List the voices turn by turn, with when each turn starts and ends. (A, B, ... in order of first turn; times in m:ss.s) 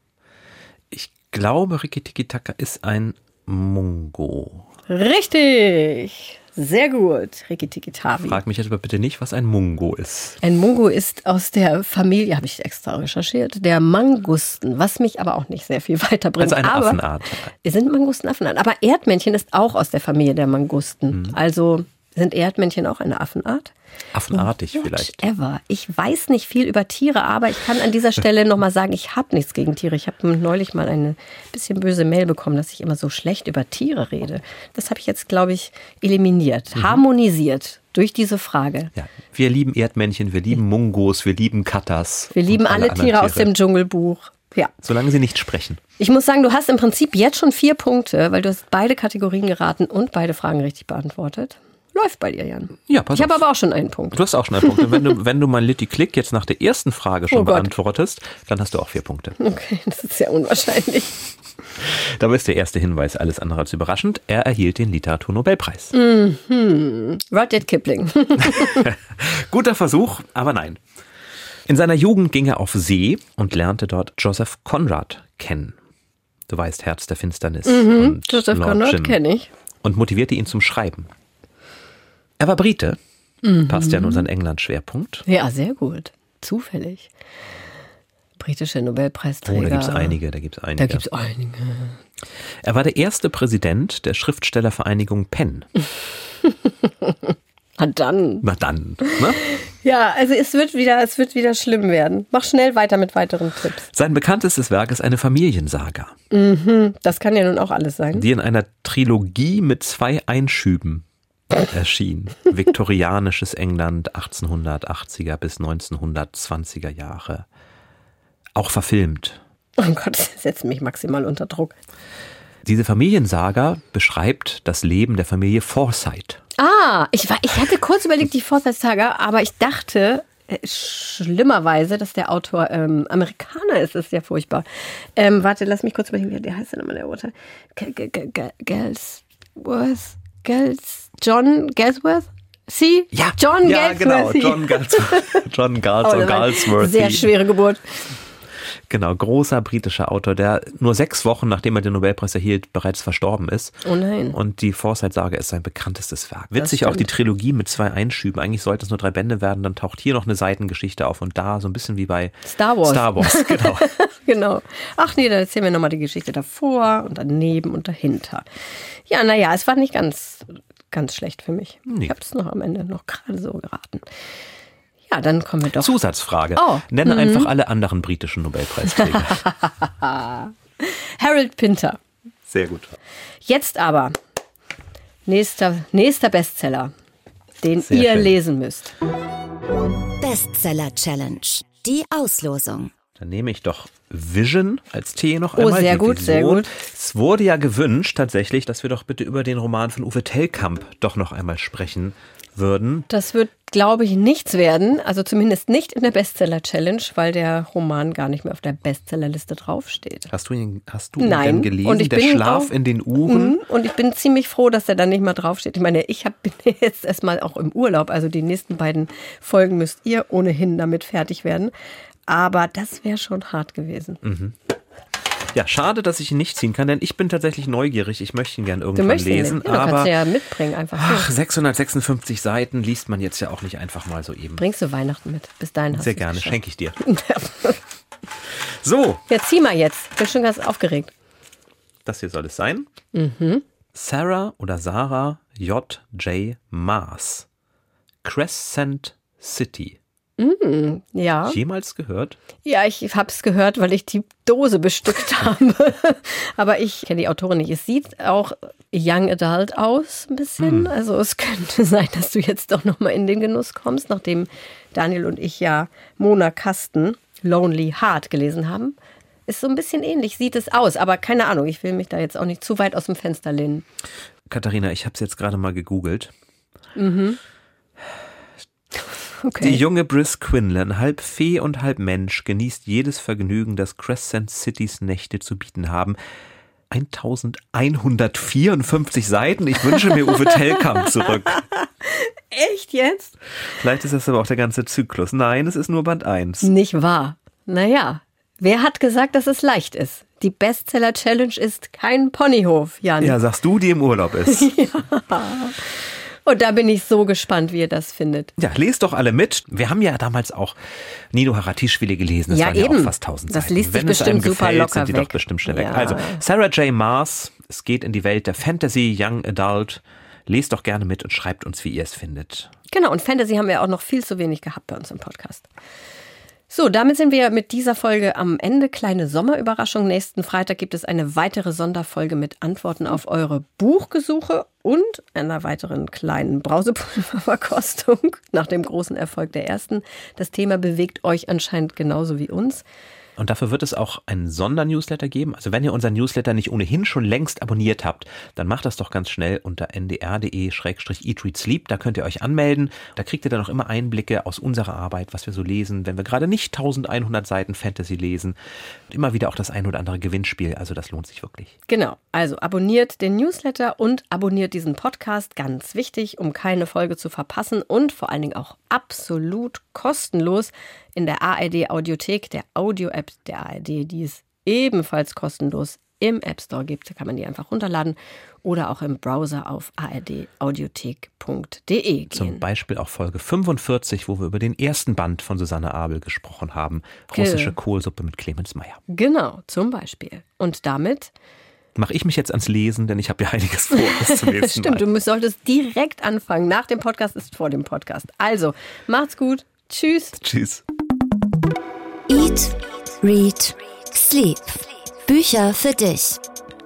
0:00.9-0:04.7 A
0:04.9-0:08.4 B
0:08.3-0:10.4 A
0:10.4-0:17.0 B
0:16.4-0:17.5 A
0:17.6-0:23.7 B
0:24.1-0:25.2 A
0:24.3-0:38.9 B
0:36.8-0:37.0 A
0:39.0-0:43.5 A
0:42.3-0:44.7 B
0:44.8-0:45.8 A
0:46.0-0:55.2 B
0:52.9-0:53.4 A
0:54.1-0:59.4 A
0:57.3-0:57.7 B
0:59.4-1:01.2 B
1:01.8-1:06.0 A
1:05.9-1:08.9 B
1:08.4-1:10.8 A
1:11.7-1:15.8 A
1:16.5-1:19.2 A
1:17.7-1:19.5 B
1:19.8-1:21.1 A
1:22.4-1:23.0 A
1:23.4-1:24.3 B
1:23.7-1:25.2 A
1:25.3-1:27.1 B
1:28.4-1:30.2 B
1:29.5-1:31.0 A
1:30.8-1:32.0 B
1:32.6-1:35.7 A
1:36.4-1:38.5 B
1:38.4-1:39.4 A
1:39.0-1:43.9 B
1:43.9-1:46.1 A
1:46.3-1:48.3 B
1:48.1-1:57.5 A
1:58.6-1:59.4 A
1:59.8-2:01.8 B
2:02.6-2:06.4 A
2:06.6-2:25.4 B
2:23.1-2:27.3 A
2:26.0-2:28.1 B
2:28.9-2:33.8 A
2:33.8-2:34.4 B
2:34.3-2:43.9 A
2:36.6-2:37.1 B
2:42.5-2:48.5 B
2:49.1-2:54.1 B
2:51.9-2:52.2 A
2:55.1-2:56.0 B
2:55.8-2:59.4 A
2:56.6-2:57.5 B
2:58.9-3:02.0 B
3:02.5-3:02.9 A
3:03.5-3:04.2 B
3:05.3-3:06.9 B
3:07.6-3:08.9 B
3:07.8-3:08.4 A
3:10.2-3:12.9 C
3:13.2-3:23.1 A
3:15.6-3:16.7 B
3:23.1-3:30.3 B
3:30.3-3:33.6 A
3:31.2-3:41.7 B
3:42.3-3:44.2 B
3:44.2-3:44.6 A
3:45.5-3:50.2 A
3:49.0-3:51.3 B
3:51.0-3:54.6 A
3:54.6-3:57.8 B
3:55.9-3:57.0 A
3:58.5-3:59.2 A
3:59.3-4:01.1 B
4:02.0-4:02.9 A
4:03.1-4:03.6 B
4:04.0-4:07.5 A
4:08.2-4:10.0 A
4:10.4-4:11.6 B
4:11.4-4:12.4 A
4:12.6-4:29.0 B
4:20.6-4:20.9 A
4:29.5-4:33.8 B
4:34.5-4:36.3 A
4:37.0-4:37.4 B
4:39.4-4:39.8 B
4:39.6-4:46.2 A
4:46.9-4:51.6 A
4:51.1-4:53.4 B
4:53.7-4:56.7 A
4:56.6-5:03.4 B
5:03.2-5:04.7 A
5:04.5-5:08.5 B
5:08.6-5:10.8 A
5:11.3-5:22.7 A
5:12.5-5:16.4 B
5:22.9-5:25.7 B
5:26.7-5:42.8 B
5:43.4-5:58.6 A
5:59.1-6:01.8 A
6:01.9-6:22.6 B
6:22.3-6:29.0 A
6:27.3-6:27.8 B
6:29.1-6:31.3 B
6:32.0-6:35.1 A
6:33.9-6:40.4 B
6:40.4-6:40.8 A
6:42.3-6:46.4 C